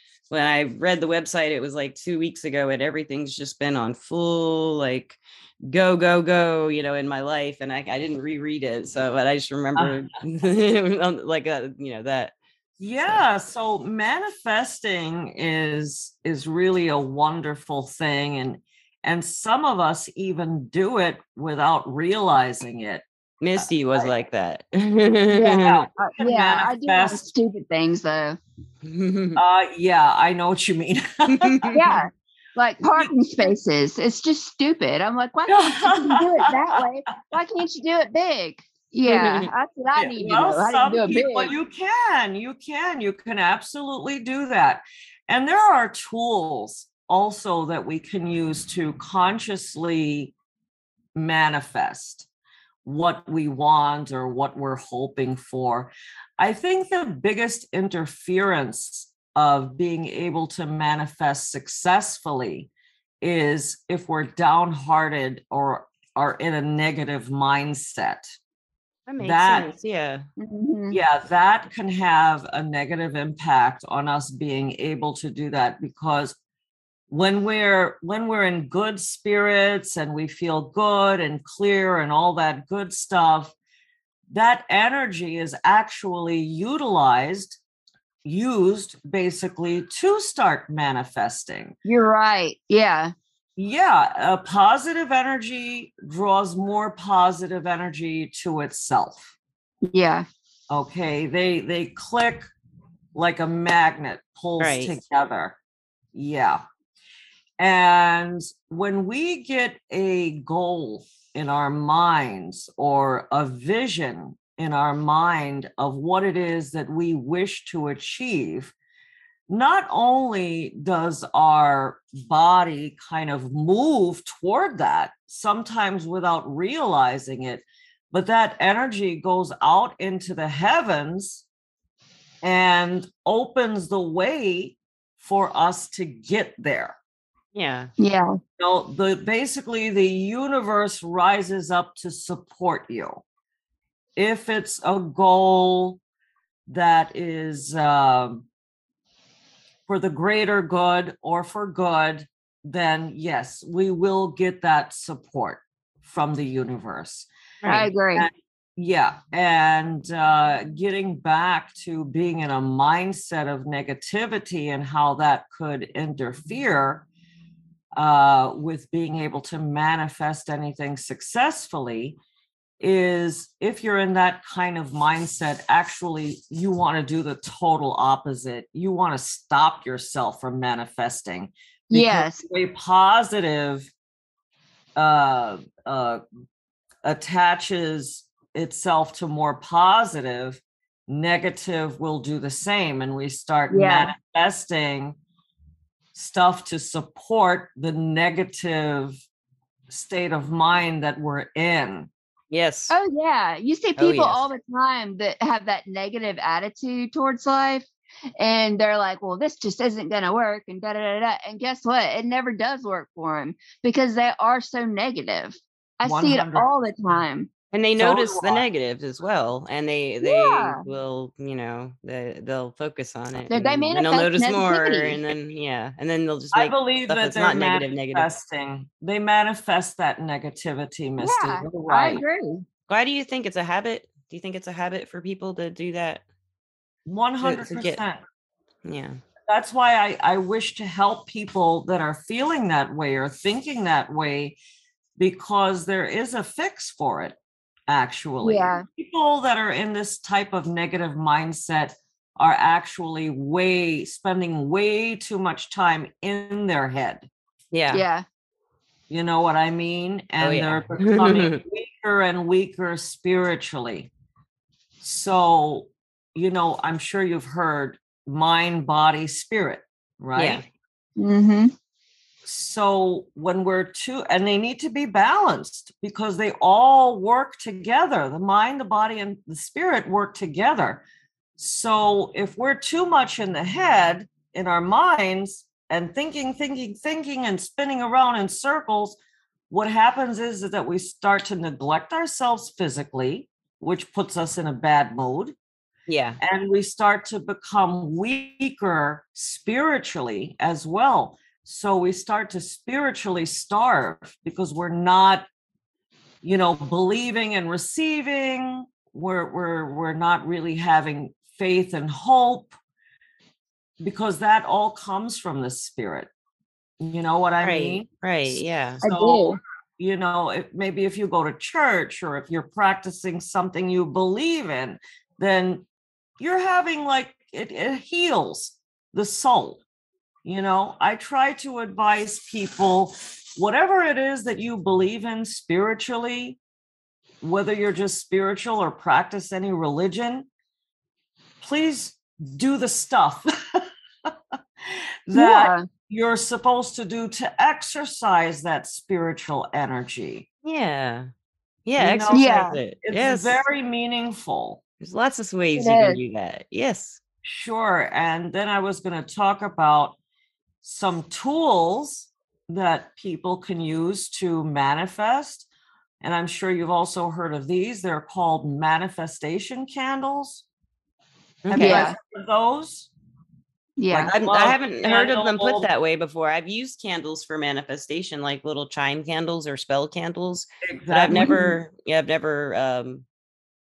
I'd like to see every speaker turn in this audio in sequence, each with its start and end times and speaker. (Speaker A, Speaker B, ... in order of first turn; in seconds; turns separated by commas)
Speaker A: 0.3-12.3, Speaker B: 9.8-10.0, Speaker B: 12.8-23.0, Speaker A: 23.4-25.9, Speaker B: 23.6-24.1, Speaker C: 25.3-28.4, Speaker B: 25.4-27.2, Speaker A: 28.8-29.4, Speaker B: 29.4-32.0, Speaker A: 31.3-31.8, Speaker C: 31.7-41.5, Speaker B: 35.5-37.3, Speaker A: 39.0-39.5, Speaker B: 40.0-50.3, Speaker B: 51.1-52.3, Speaker B: 52.8-62.7, Speaker B: 63.2-68.3, Speaker A: 69.1-70.2, Speaker B: 69.2-69.7, Speaker C: 70.4-71.0, Speaker B: 70.9-76.3, Speaker B: 77.1-83.5, Speaker B: 84.3-87.6, Speaker B: 88.2-91.7, Speaker C: 91.8-93.1, Speaker B: 93.6-99.3, Speaker C: 99.9-100.2, Speaker B: 100.7-102.5, Speaker B: 103.1-105.6, Speaker A: 104.6-105.0, Speaker B: 106.1-106.6, Speaker B: 107.6-118.7, Speaker B: 119.5-131.4, Speaker B: 132.4-137.0, Speaker A: 137.5-137.9, Speaker C: 138.0-138.3, Speaker B: 138.6-143.2, Speaker B: 144.2-146.0, Speaker B: 146.7-148.5, Speaker B: 149.9-157.3, Speaker A: 157.6-157.9, Speaker C: 157.7-158.3, Speaker B: 158.1-167.1, Speaker B: 167.9-172.2, Speaker B: 172.8-183.9, Speaker C: 181.9-182.4, Speaker B: 184.9-186.2, Speaker B: 187.0-195.2, Speaker C: 193.7-194.1, Speaker B: 196.1-199.2, Speaker B: 199.9-202.1, Speaker A: 202.5-202.9, Speaker C: 202.9-207.9, Speaker A: 204.0-204.4, Speaker C: 208.4-217.5, Speaker B: 216.0-216.7, Speaker A: 217.7-228.3, Speaker B: 218.0-218.6, Speaker C: 220.2-220.8, Speaker C: 223.5-225.2, Speaker B: 226.5-232.2, Speaker C: 231.2-232.6, Speaker A: 232.9-236.2, Speaker B: 237.1-238.2, Speaker A: 237.4-238.0, Speaker A: 238.8-239.2, Speaker B: 239.5-244.6, Speaker B: 245.2-257.3, Speaker C: 248.4-248.8, Speaker A: 257.7-258.0, Speaker C: 257.9-258.2, Speaker B: 259.1-264.1, Speaker A: 260.4-261.6, Speaker B: 265.0-270.6, Speaker A: 270.3-270.6, Speaker C: 271.2-271.7, Speaker B: 272.4-281.0, Speaker B: 281.6-289.2, Speaker B: 289.7-295.6, Speaker A: 296.1-296.4, Speaker B: 296.4-305.5, Speaker B: 306.4-312.7, Speaker B: 314.0-316.3, Speaker B: 317.0-325.9, Speaker A: 317.6-319.0, Speaker C: 319.0-319.6, Speaker B: 326.4-329.8, Speaker B: 330.4-336.6, Speaker B: 337.4-340.5, Speaker B: 341.6-344.3, Speaker B: 344.8-350.4, Speaker C: 345.3-345.9, Speaker A: 350.6-351.3, Speaker A: 351.9-353.6, Speaker B: 352.0-354.8, Speaker C: 352.3-352.8, Speaker A: 355.0-357.2, Speaker C: 355.8-356.2, Speaker B: 357.4-360.2, Speaker B: 360.8-365.7, Speaker B: 366.2-370.6, Speaker A: 371.6-372.1, Speaker C: 371.7-372.1, Speaker B: 371.7-373.1, Speaker C: 374.0-374.3, Speaker B: 374.1-375.9, Speaker A: 374.3-383.2, Speaker B: 380.8-381.6, Speaker C: 381.3-381.7